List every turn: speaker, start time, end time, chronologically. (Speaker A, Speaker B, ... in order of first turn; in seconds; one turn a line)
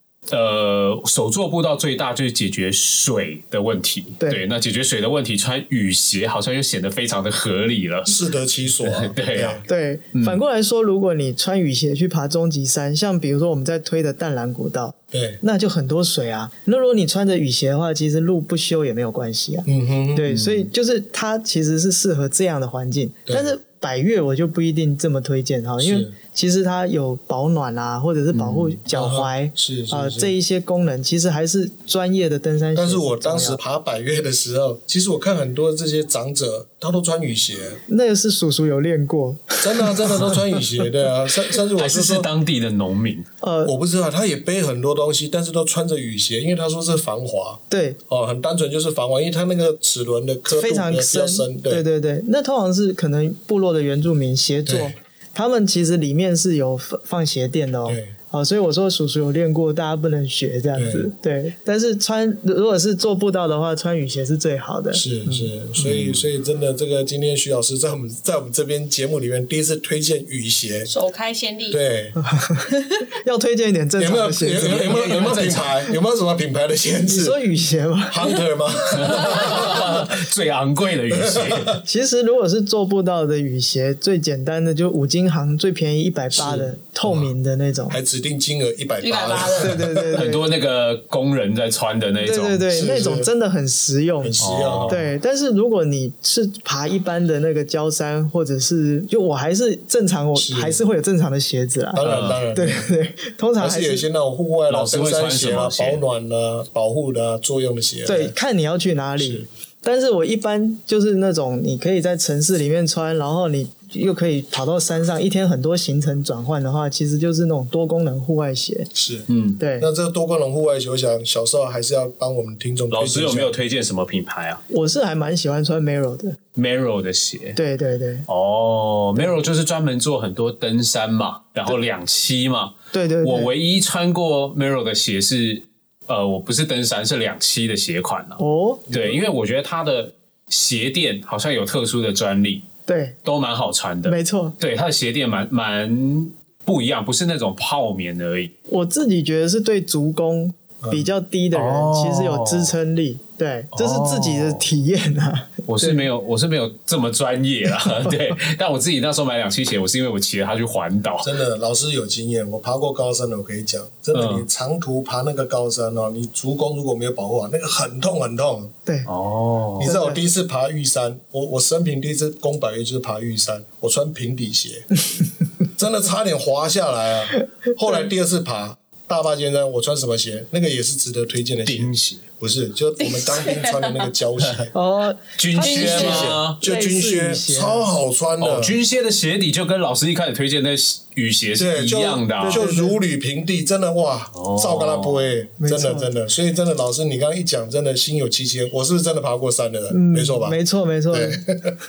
Speaker A: 0.3-8.2
Speaker B: 8.1-9.6
Speaker A: 8.8-9.6
Speaker C: 9.7-33.6
Speaker A: 10.1-10.4
Speaker B: 15.1-15.4
Speaker B: 19.7-20.3
Speaker A: 20.3-20.7
Speaker B: 23.3-23.5
Speaker B: 25.8-26.1
Speaker B: 28.3-30.3
Speaker B: 32.7-37.8
Speaker C: 37.9-40.4
Speaker B: 39.6-42.3
Speaker A: 41.8-43.3
Speaker C: 43.4-43.7
Speaker B: 43.6-51.8
Speaker C: 47.7-48.0
Speaker C: 50.5-65.5
Speaker B: 54.7-54.9
Speaker B: 57.9-58.1
Speaker B: 60.8-61.1
Speaker B: 64.9-70.9
Speaker D: 70.9-71.8
Speaker B: 71.7-72.2
Speaker C: 72.2-72.7
Speaker C: 73.2-75.1
Speaker B: 74.0-77.4
Speaker A: 74.6-75.7
Speaker C: 77.1-78.4
Speaker B: 78.1-80.1
Speaker A: 79.0-81.8
Speaker B: 81.1-81.8
Speaker C: 81.8-88.0
Speaker B: 86.3-87.3
Speaker B: 87.9-90.2
Speaker D: 89.0-89.8
Speaker C: 89.6-90.5
Speaker A: 90.1-92.7
Speaker C: 92.2-104.0
Speaker B: 92.7-93.3
Speaker B: 94.2-95.0
Speaker A: 94.4-95.0
Speaker B: 100.4-100.8
Speaker B: 101.9-102.9
Speaker A: 102.0-102.4
Speaker B: 103.6-108.3
Speaker A: 104.7-106.0
Speaker C: 108.1-118.9
Speaker B: 109.2-109.5
Speaker B: 118.9-119.3
Speaker A: 119.3-119.6
Speaker C: 119.6-119.9
Speaker B: 119.8-123.5
Speaker A: 122.9-124.6
Speaker C: 124.7-126.4
Speaker A: 126.5-127.6
Speaker C: 127.6-128.3
Speaker A: 128.3-142.7
Speaker C: 132.9-133.5
Speaker C: 138.4-138.9
Speaker B: 138.9-139.2
Speaker C: 142.9-143.2
Speaker A: 143.2-148.5
Speaker C: 144.1-144.6
Speaker C: 148.7-156.1
Speaker B: 150.8-151.1
Speaker A: 151.5-152.7
Speaker A: 153.7-154.7
Speaker A: 155.7-161.3
Speaker B: 161.2-168.7
Speaker A: 164.1-164.5
Speaker A: 169.1-169.9
Speaker B: 169.8-174.9
Speaker C: 169.8-170.2
Speaker B: 175.8-184.7
Speaker A: 181.7-182.0
Speaker D: 183.0-184.1
Speaker C: 184.7-187.9
Speaker A: 185.4-186.6
Speaker B: 185.6-188.8
Speaker D: 185.6-186.3
Speaker A: 188.4-192.7
Speaker B: 191.6-200.6
Speaker C: 192.4-193.0
Speaker A: 194.3-195.3
Speaker C: 195.6-196.1
Speaker C: 199.9-201.4
Speaker B: 201.1-201.8